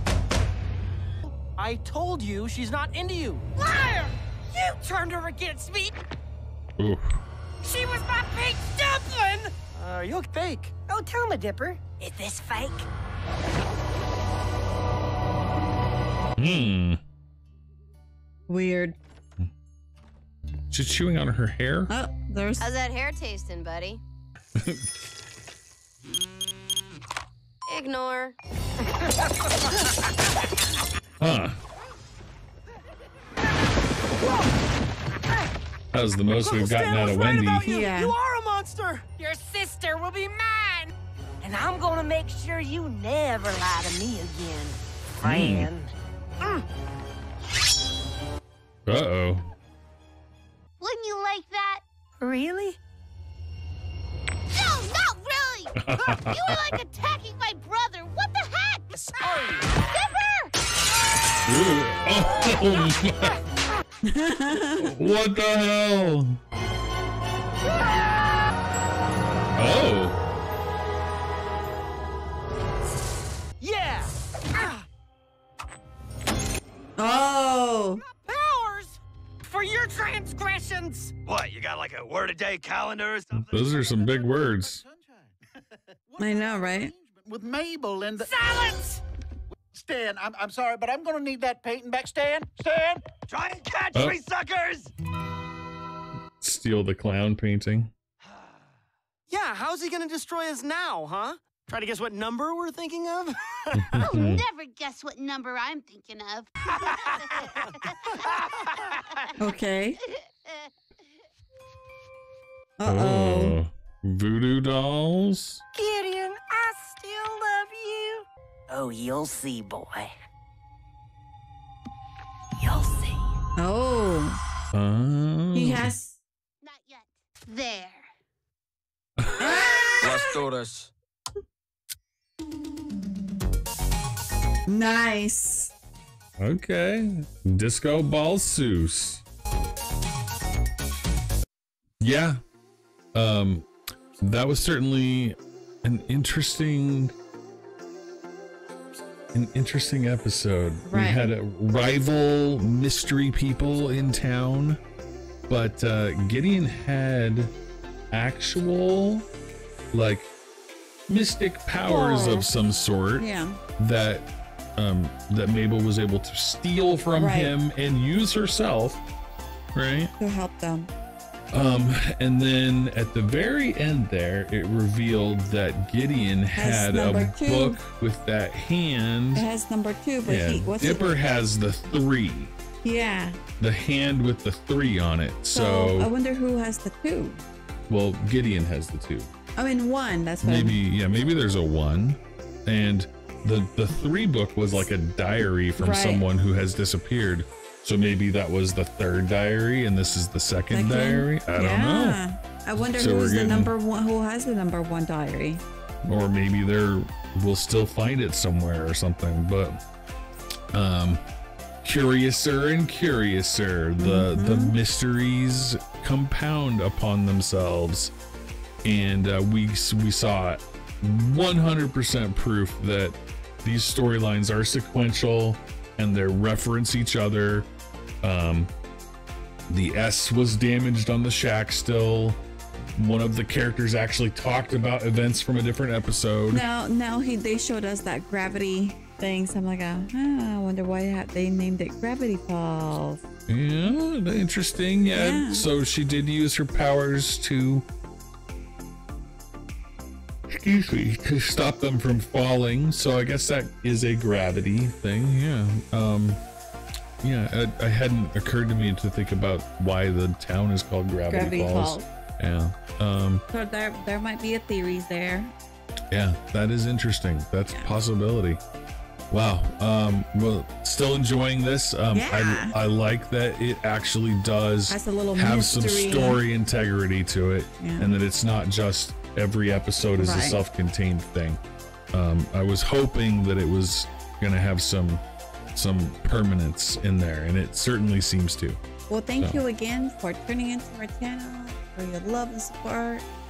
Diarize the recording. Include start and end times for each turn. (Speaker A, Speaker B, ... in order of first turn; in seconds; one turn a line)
Speaker A: 1.6-3.5
Speaker B: 3.6-6.0
Speaker C: 6.8-7.2
Speaker B: 7.6-9.5
Speaker A: 9.7-10.8
Speaker B: 10.9-12.9
Speaker C: 16.4-17.0
Speaker D: 18.5-19.0
Speaker C: 20.7-21.9
Speaker D: 21.9-22.7
Speaker E: 22.6-24.0
Speaker E: 27.7-28.4
Speaker C: 31.2-31.6
Speaker C: 35.9-37.7
Speaker A: 36.3-39.1
Speaker D: 37.7-38.2
Speaker B: 39.1-40.9
Speaker B: 41.5-44.8
Speaker C: 45.2-45.7
Speaker A: 45.3-45.6
Speaker C: 48.9-49.5
Speaker F: 50.8-51.8
Speaker B: 52.2-52.8
Speaker F: 54.5-60.5
Speaker C: 55.8-56.8
Speaker A: 59.0-59.7
Speaker C: 61.5-63.4
Speaker D: 64.1-64.9
Speaker C: 64.8-66.4
Speaker C: 69.6-70.2
Speaker B: 73.6-74.8
Speaker D: 77.0-78.0
Speaker B: 78.0-81.1
Speaker G: 81.2-83.5
Speaker C: 83.5-84.8
Speaker H: 83.5-85.4
Speaker H: 86.1-88.4
Speaker D: 86.2-86.9
Speaker B: 88.2-89.0
Speaker H: 89.7-93.0
Speaker G: 93.3-94.9
Speaker C: 93.9-94.2
Speaker C: 96.4-97.9
Speaker A: 99.3-104.0
Speaker C: 103.8-104.4
Speaker F: 104.0-108.5
Speaker A: 108.3-109.0
Speaker D: 109.4-110.0
Speaker F: 110.0-110.7
Speaker D: 112.8-113.6
Speaker C: 112.9-115.6
Speaker B: 115.7-118.3
Speaker A: 118.7-120.1
Speaker D: 123.6-124.4
Speaker C: 124.7-125.9
Speaker D: 125.5-126.2
Speaker F: 126.6-128.1
Speaker C: 129.2-129.5
Speaker D: 129.4-130.3
Speaker G: 130.0-130.9
Speaker D: 134.7-135.7
Speaker C: 136.4-139.2
Speaker C: 142.0-142.4
Speaker C: 143.1-143.7
Speaker C: 144.2-147.1
Speaker C: 149.3-154.8
Speaker D: 150.9-151.3
Speaker C: 155.5-157.6
Speaker C: 158.1-159.3
Speaker C: 159.9-160.3
Speaker C: 161.1-169.0
Speaker D: 161.8-162.5
Speaker D: 163.2-163.6
Speaker D: 167.2-167.6
Speaker C: 169.8-170.1
Speaker D: 170.2-170.9
Speaker C: 171.5-179.5
Speaker D: 176.5-177.8
Speaker D: 179.4-181.1
Speaker C: 180.2-182.6
Speaker D: 182.8-183.4
Speaker C: 183.6-186.1
Speaker D: 185.5-187.4
Speaker C: 187.9-189.3
Speaker D: 189.6-190.8
Speaker C: 190.4-202.2
Speaker D: 195.8-196.2
Speaker D: 200.7-205.6
Speaker C: 202.8-203.7
Speaker C: 206.0-209.8
Speaker C: 210.7-211.2
Speaker C: 211.8-218.1
Speaker D: 214.0-214.8
Speaker C: 218.8-227.7
Speaker C: 228.2-228.7
Speaker C: 229.7-232.4
Speaker C: 233.0-236.7
Speaker D: 236.5-243.2
Speaker C: 243.5-247.8
Speaker D: 245.1-245.7
Speaker C: 250.5-256.4
Speaker C: 257.2-263.4
Speaker D: 261.3-262.1
Speaker D: 263.5-265.5
Speaker C: 266.1-268.6
Speaker C: 269.3-281.6
Speaker D: 272.1-272.8
Speaker D: 274.9-276.4
Speaker D: 277.8-278.1
Speaker D: 280.2-280.6
Speaker C: 282.1-285.2
Speaker C: 285.8-288.8
Speaker D: 289.1-293.3
Speaker C: 289.4-289.6